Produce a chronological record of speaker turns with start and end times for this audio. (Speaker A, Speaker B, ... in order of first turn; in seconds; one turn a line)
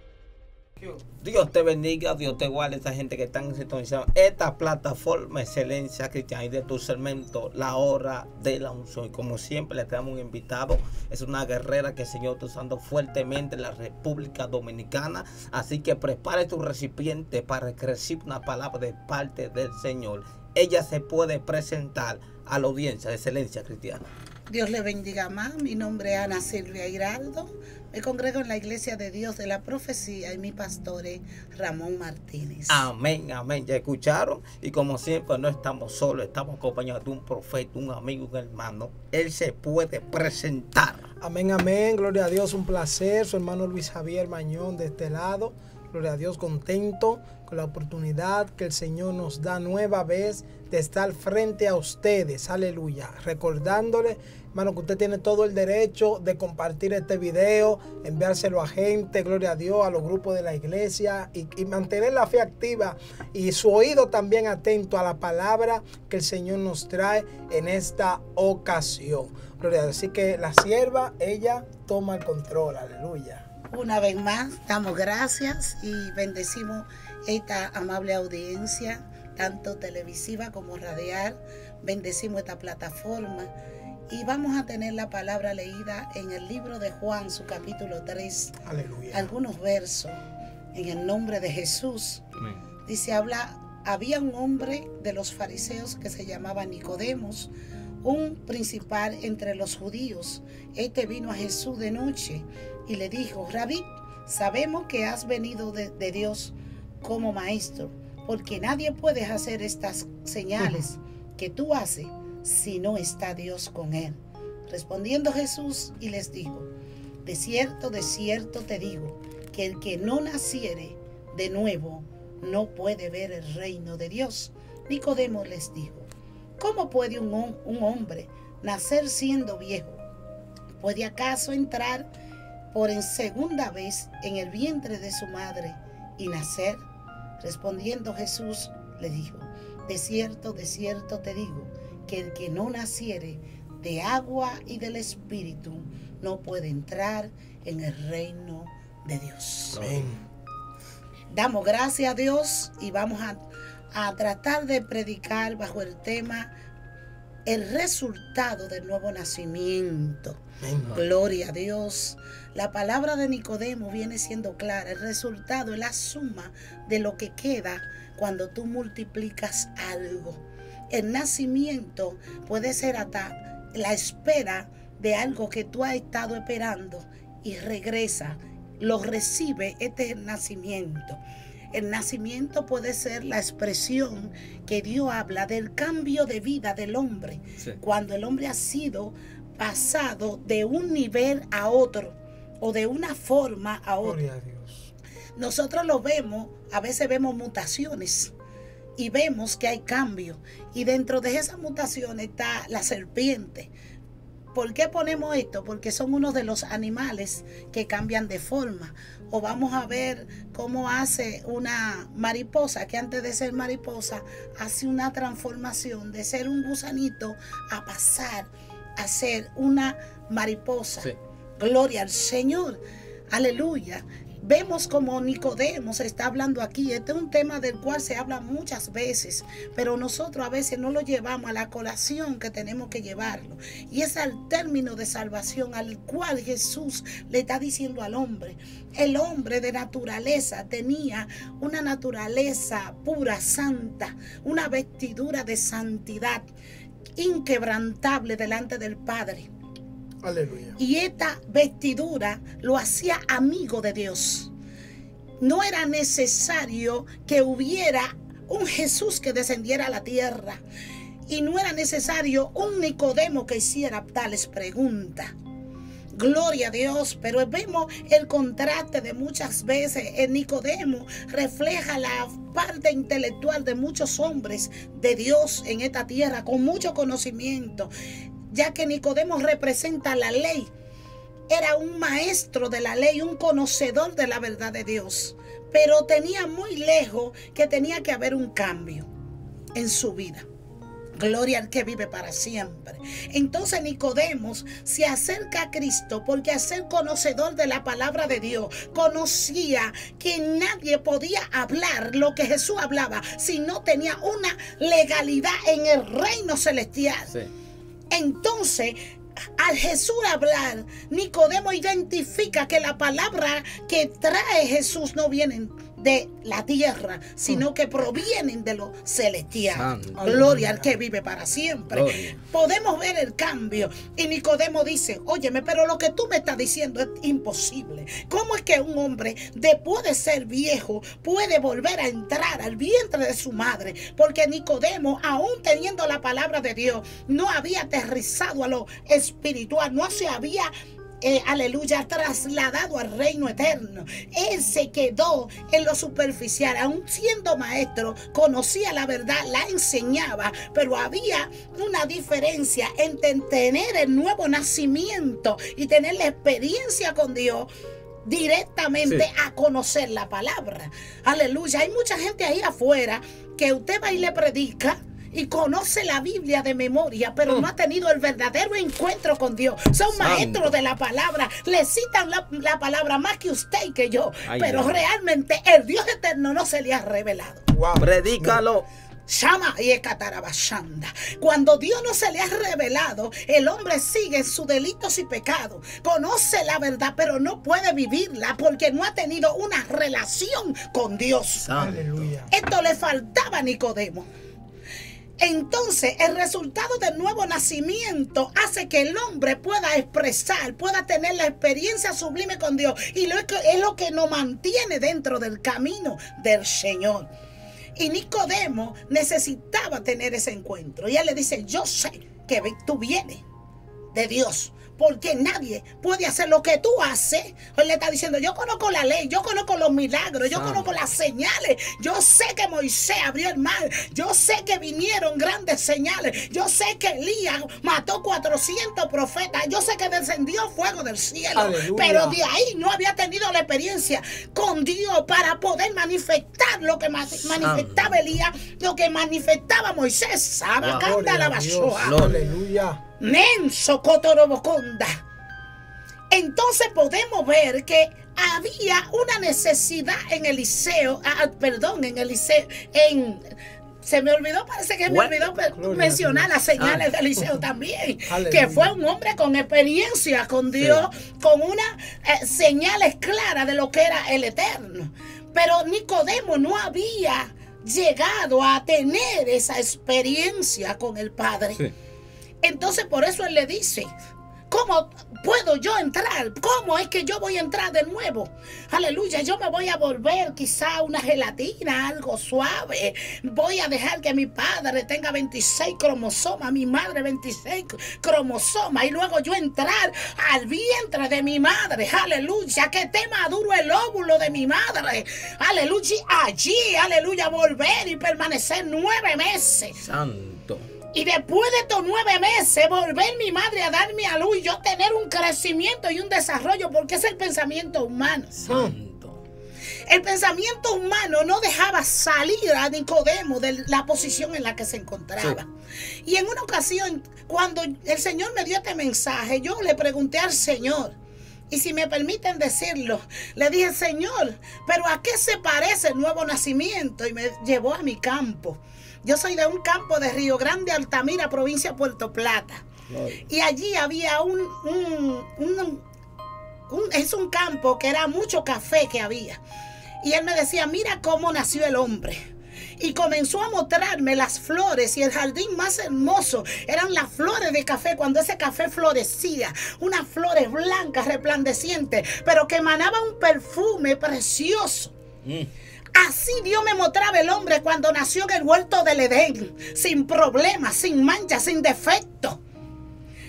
Speaker A: 1.2-24.1
Speaker B: 24.5-32.9
Speaker A: 32.7-41.1
Speaker C: 41.2-73.5
Speaker B: 73.7-83.5
Speaker B: 84.1-88.5
Speaker C: 88.6-89.3
Speaker B: 89.1-90.2
Speaker B: 90.7-92.2
Speaker B: 92.9-97.5
Speaker B: 98.0-116.7
Speaker B: 117.2-126.1
Speaker B: 126.6-130.0
Speaker B: 130.8-132.1
Speaker B: 132.7-136.8
Speaker B: 137.4-149.8
Speaker A: 149.7-150.2
Speaker C: 149.8-150.2
Speaker B: 151.3-153.4
Speaker B: 153.9-156.5
Speaker B: 157.5-160.4
Speaker C: 160.6-161.0
Speaker B: 160.9-181.2
Speaker B: 181.7-194.2
Speaker C: 194.0-194.9
Speaker B: 195.4-198.3
Speaker B: 199.0-203.7
Speaker B: 204.5-246.5
Speaker B: 247.2-249.5
Speaker C: 250.2-250.8
Speaker B: 250.8-254.5
Speaker B: 255.4-260.6
Speaker B: 261.3-265.3
Speaker B: 266.1-277.9
Speaker B: 278.5-280.7
Speaker B: 281.5-289.1
Speaker B: 289.8-290.5
Speaker B: 291.2-307.3
Speaker B: 308.1-309.0
Speaker B: 309.6-357.7
Speaker A: 319.7-320.5
Speaker C: 320.1-321.0
Speaker A: 321.9-322.4
Speaker B: 358.2-377.7
Speaker A: 370.1-370.8
Speaker A: 374.5-375.0
Speaker C: 377.7-378.6
Speaker A: 378.0-378.9
Speaker B: 379.3-391.7
Speaker A: 391.6-392.3
Speaker C: 391.8-392.5
Speaker B: 392.5-394.3
Speaker B: 395.4-407.3
Speaker B: 408.0-413.4
Speaker B: 414.1-442.3
Speaker A: 420.5-420.9
Speaker C: 431.6-432.4
Speaker A: 437.5-438.3
Speaker A: 440.8-441.2
Speaker C: 441.0-443.0
Speaker A: 442.0-442.5
Speaker B: 443.2-445.2
Speaker B: 446.3-453.4
Speaker B: 454.0-471.8
Speaker A: 455.1-455.5
Speaker C: 455.8-456.6
Speaker A: 456.8-457.1
Speaker C: 458.3-458.9
Speaker A: 460.8-461.1
Speaker B: 472.6-474.1
Speaker B: 474.7-500.0
Speaker A: 500.0-500.9
Speaker B: 501.1-508.5
Speaker A: 508.5-509.4
Speaker C: 508.7-508.9
Speaker B: 510.1-515.7
Speaker B: 516.2-521.1
Speaker B: 521.7-532.9
Speaker A: 533.1-533.4
Speaker B: 533.5-536.0
Speaker B: 536.9-539.6
Speaker B: 540.2-555.1
Speaker A: 555.4-555.7
Speaker B: 556.1-562.6